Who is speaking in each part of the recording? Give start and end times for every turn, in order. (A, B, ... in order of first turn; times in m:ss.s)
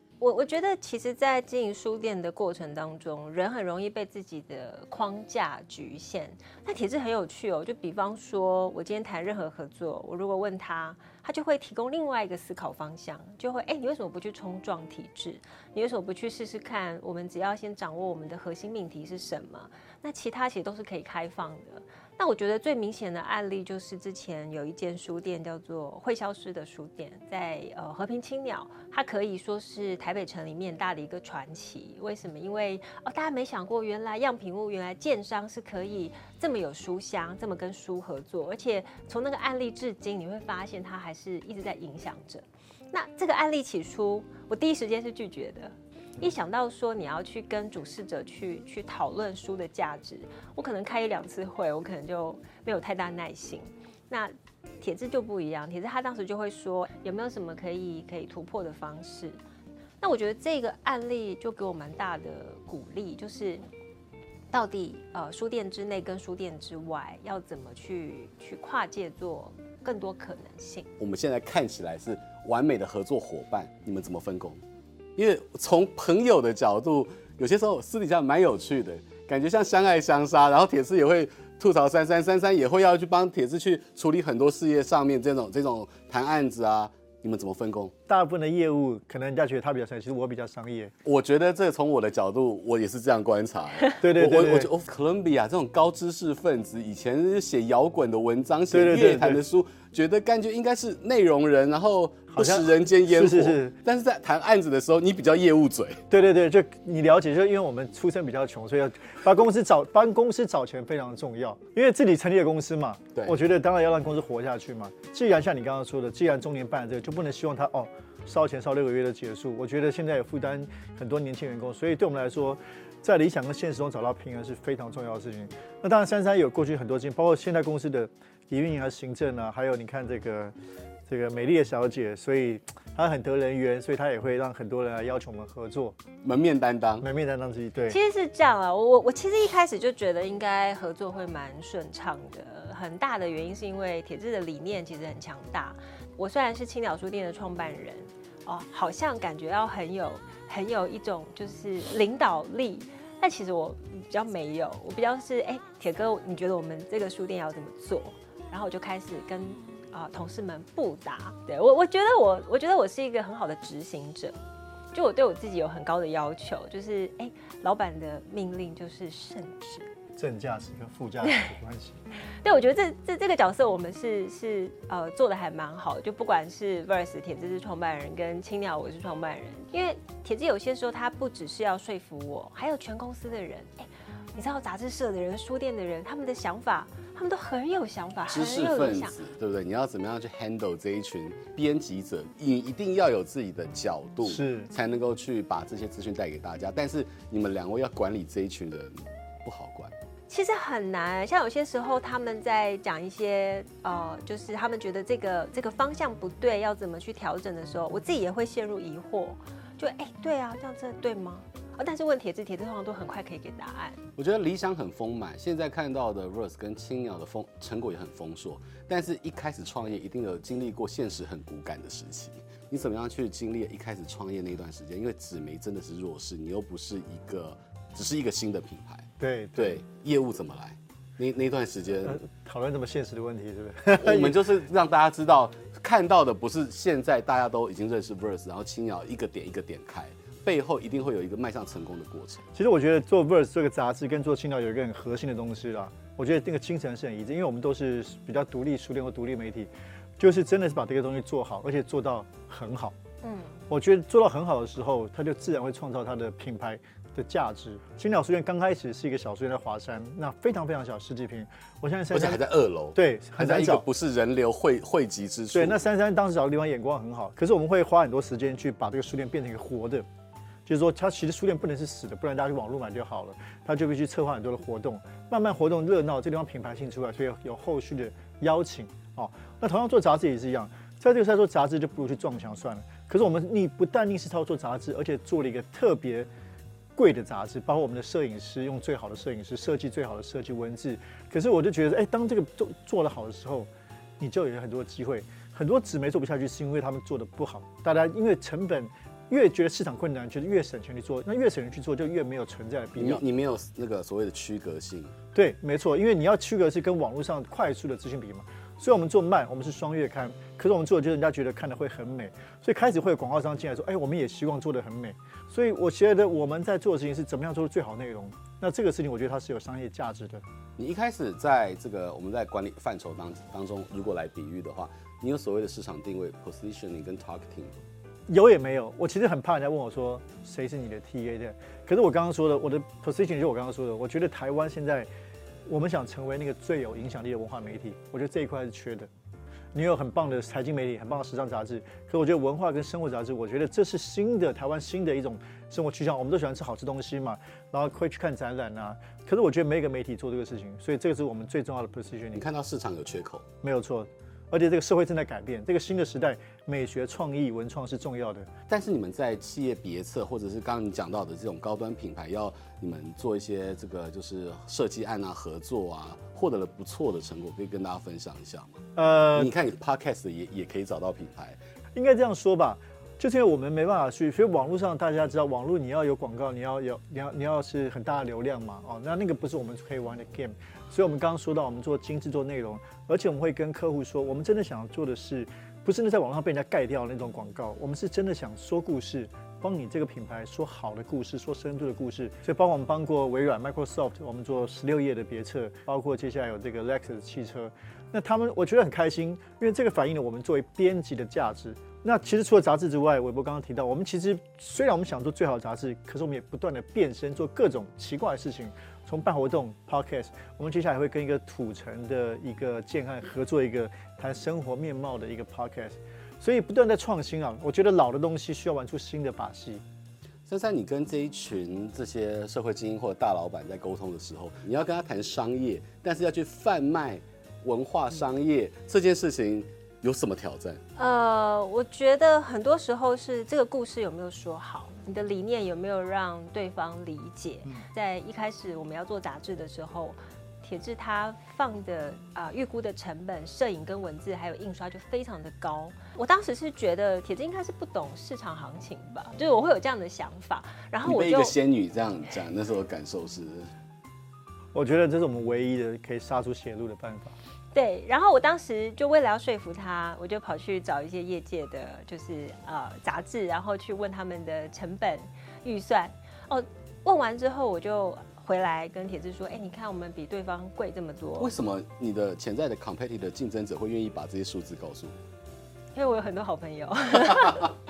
0:00.2-0:59.4 A
1:00.0-1:03.6 A
1:04.5-1:10.9 A
1:11.0-1:14.6 B
1:15.2-1:27.9 B
1:28.1-1:30.9 C
1:31.0-1:46.0 B
1:34.0-1:34.7 C
1:38.7-1:39.4 C
1:42.3-1:43.7 C
1:46.1-2:10.5 C
2:11.1-2:16.0 C
2:16.2-2:17.0 B
2:17.0-2:18.0 C
2:17.8-2:44.4 A
2:44.9-2:49.9 A
2:50.2-2:52.0 C
2:51.2-2:51.5 A
2:52.4-3:09.2 A
3:08.3-3:19.9 B
3:14.2-3:14.7 C
3:20.3-3:34.0 A
3:34.2-3:52.2 B
3:49.2-3:49.8 C
3:52.0-3:54.5 C
3:54.0-4:02.5 B
4:02.5-4:13.0 C
4:13.2-4:13.6 A
4:13.7-4:22.4 C
4:22.1-4:25.8 B
4:22.9-4:23.8 C
4:25.5-4:30.0 C
4:30.6-4:46.3 C
4:47.0-4:53.7 C
4:54.2-5:03.2 C
5:03.0-5:05.1 B
5:05.3-5:20.4 C
5:20.8-5:27.7 B
5:28.3-5:35.1 C
5:35.6-5:39.1 C
5:39.7-5:52.4 C
5:52.3-5:53.4 B
5:53.6-5:58.5 C
5:58.7-6:08.8 B
6:09.0-6:09.5 C
6:09.3-6:11.6 B
6:11.9-6:59.8 C
7:00.5-7:10.8 B
7:11.0-7:31.5 A
7:31.0-7:33.7 B
7:34.7-7:37.3 C
7:37.7-7:51.5 A
7:51.4-7:55.2 B
7:55.9-7:57.7 A
7:57.4-7:57.6 B